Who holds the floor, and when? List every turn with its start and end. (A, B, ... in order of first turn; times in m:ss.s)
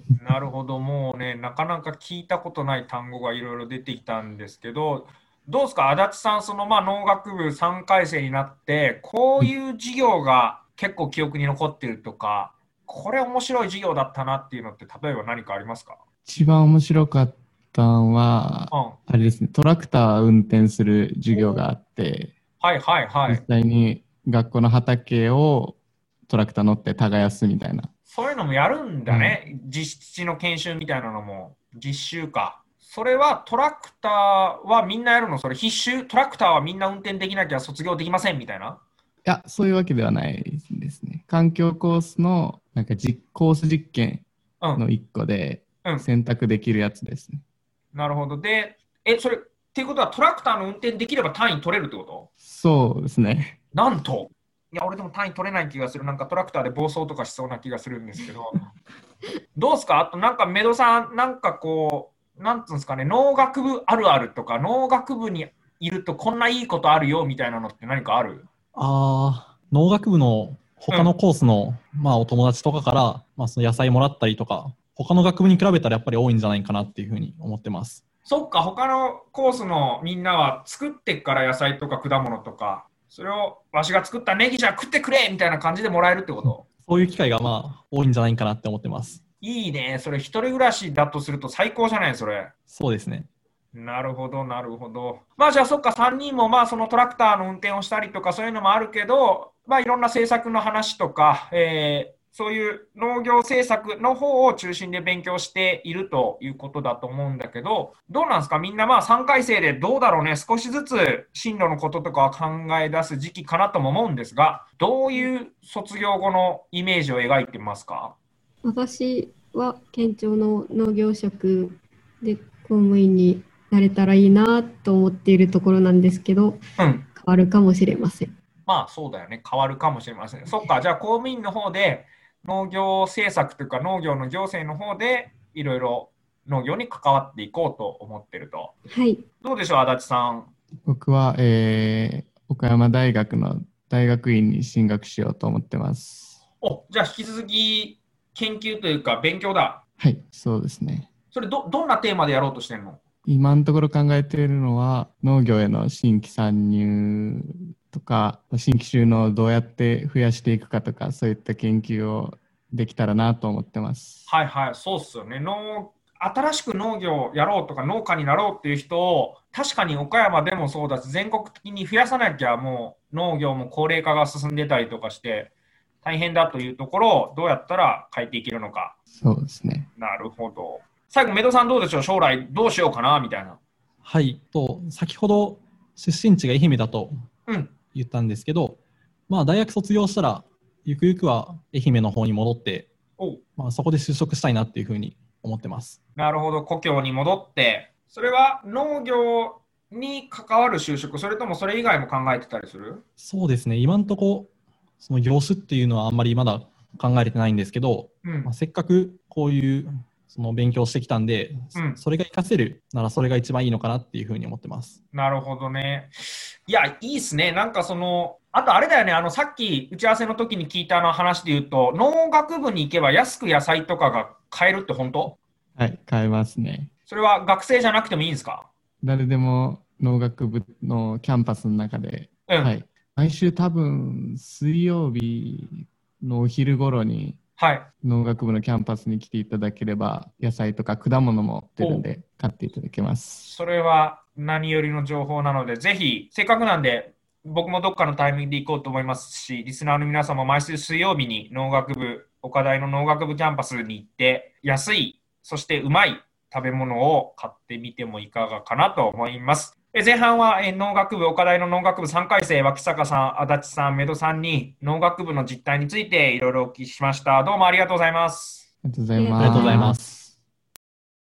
0:00.2-0:16.0 A
0:16.2-0:22.3 B
0:18.7-0:19.0 A
0:22.6-0:23.4 A
0:23.3-0:27.9 B
0:28.1-0:38.8 A
0:29.1-0:29.4 B
0:39.2-0:44.2 B
0:44.8-0:47.4 B
0:47.9-0:52.3 A
0:52.4-0:53.6 B
0:53.7-0:58.6 A
0:59.6-1:08.4 A
1:08.7-1:18.0 C
1:18.2-1:26.6 A
1:26.8-1:29.2 C
1:29.4-1:32.5 A
1:32.7-1:33.3 C
1:33.7-1:58.1 A
1:58.6-2:06.6 D
2:06.8-2:07.1 A
2:07.1-2:08.3 D
2:08.6-2:18.7 A
2:18.9-2:19.2 D
2:19.4-2:20.5 A
2:20.8-2:26.4 B
2:26.6-2:29.8 A
2:30.0-2:31.1 B
2:31.3-2:33.0 A
2:33.2-2:44.3 B
2:44.3-2:55.5 A
2:56.0-2:58.9 A
2:59.1-2:59.9 B
3:00.0-3:03.6 A
3:04.0-3:07.1 C
3:07.5-3:07.7 A
3:07.9-3:08.8 C
3:09.3-3:12.9 C
3:13.6-3:16.0 C
3:16.2-3:23.0 A
3:23.2-3:35.0 C
3:28.2-3:28.5 A
3:35.1-3:45.4 A
3:45.8-3:46.9 B
3:47.1-3:48.7 A
3:49.0-3:57.4 B
3:52.5-3:52.7 A
3:57.6-3:57.9 A
3:58.0-4:03.4 B
4:01.8-4:02.0 A
4:03.4-4:28.6 A
4:28.8-4:30.3 B
4:29.1-4:29.9 D
4:29.4-4:30.0 C